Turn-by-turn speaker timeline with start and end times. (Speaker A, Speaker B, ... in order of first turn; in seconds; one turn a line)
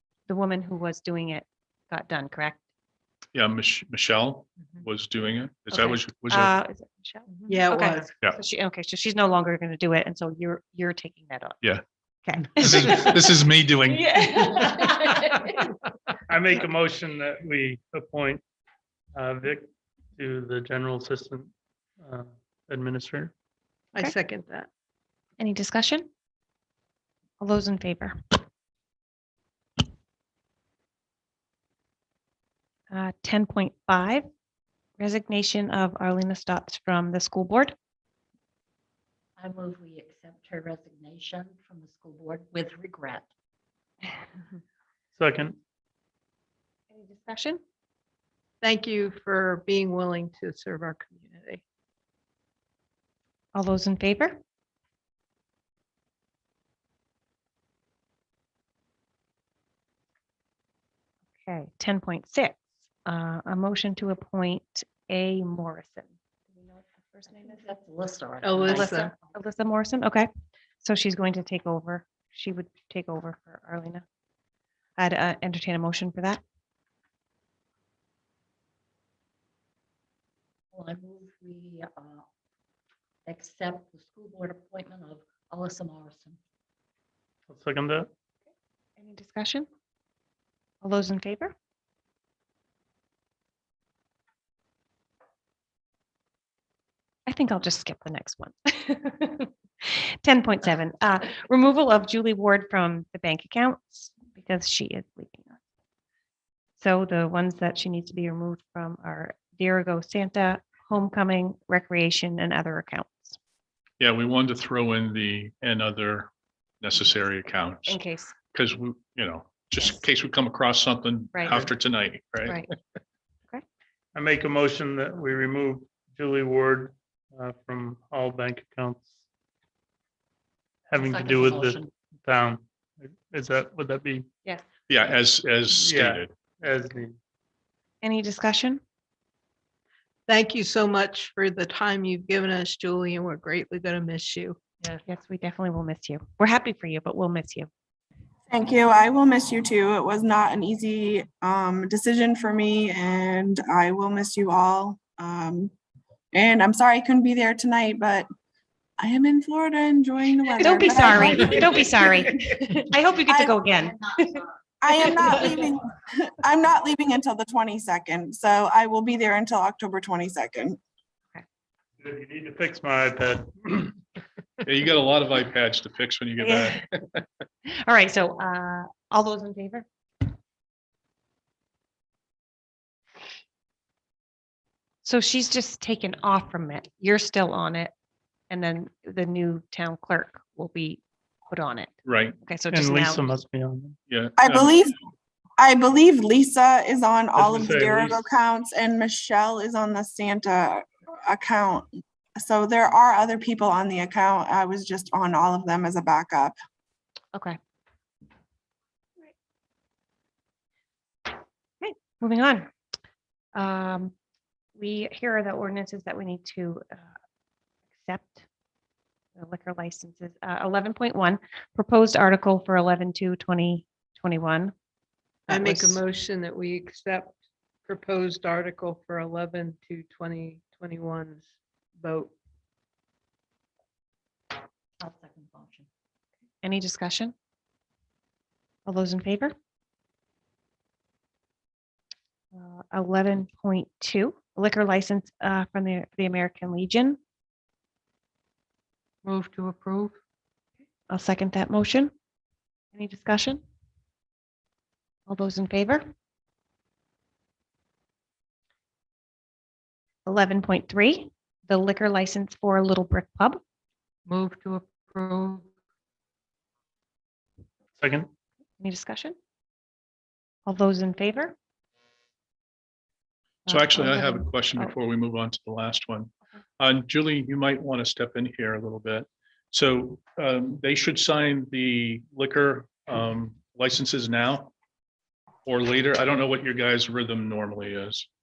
Speaker A: 0.3-2.6
Speaker B: 3.3-6.5
Speaker A: 5.7-11.6
Speaker C: 7.5-8.1
Speaker A: 12.2-13.3
Speaker B: 12.4-14.2
Speaker D: 14.1-15.5
Speaker A: 14.2-14.8
Speaker E: 16.3-18.4
Speaker E: 19.1-23.3
Speaker C: 23.9-24.7
Speaker A: 25.4-26.1
Speaker A: 27.4-28.1
Speaker A: 32.9-34.3
Speaker A: 35.0-37.7
Speaker D: 39.4-43.3
Speaker E: 45.1-45.5
Speaker A: 46.9-47.6
Speaker C: 48.6-51.6
Speaker A: 53.5-54.4
Speaker A: 61.4-67.7
Speaker D: 67.4-69.0
Speaker C: 68.4-69.1
Speaker A: 68.6-70.3
Speaker A: 70.8-74.0
Speaker A: 75.0-76.4
Speaker D: 80.7-82.2
Speaker D: 83.2-86.4
Speaker E: 87.5-88.1
Speaker A: 89.0-89.7
Speaker A: 90.8-91.5
Speaker A: 97.3-105.6
Speaker A: 106.8-113.4
Speaker B: 114.0-116.3
Speaker B: 116.8-122.6
Speaker A: 117.8-118.3
Speaker A: 122.4-122.7
Speaker E: 124.1-129.1
Speaker E: 130.9-134.3
Speaker D: 130.9-131.9
Speaker B: 134.9-136.3
Speaker E: 135.7-137.2
Speaker A: 138.0-138.8
Speaker C: 140.3-144.6
Speaker A: 145.1-147.7
Speaker F: 148.5-155.7
Speaker F: 156.3-158.3
Speaker F: 159.0-161.9
Speaker A: 160.6-164.4
Speaker F: 163.3-163.5
Speaker F: 164.8-170.8
Speaker E: 172.0-173.9
Speaker B: 174.6-177.2
Speaker A: 176.4-176.8
Speaker A: 177.7-179.9
Speaker A: 185.0-187.9
Speaker A: 188.5-193.2
Speaker B: 192.0-192.3
Speaker E: 192.7-194.0
Speaker B: 194.1-194.7
Speaker F: 194.4-194.9
Speaker F: 195.6-206.5
Speaker E: 197.3-198.2
Speaker A: 211.8-212.7
Speaker A: 213.5-214.1
Speaker A: 214.8-217.1
Speaker A: 218.0-218.4
Speaker A: 219.3-224.7
Speaker A: 225.5-226.0
Speaker C: 225.5-232.3
Speaker D: 235.0-235.9
Speaker A: 236.6-237.3
Speaker A: 238.8-239.5
Speaker A: 242.5-247.2
Speaker A: 251.1-252.1
Speaker A: 252.9-253.6
Speaker A: 255.3-256.1
Speaker A: 260.2-263.6
Speaker D: 264.3-265.6
Speaker E: 268.0-268.3
Speaker A: 268.8-269.4
Speaker A: 270.6-271.6
Speaker A: 273.7-274.9
Speaker B: 273.7-284.7
Speaker B: 285.6-288.3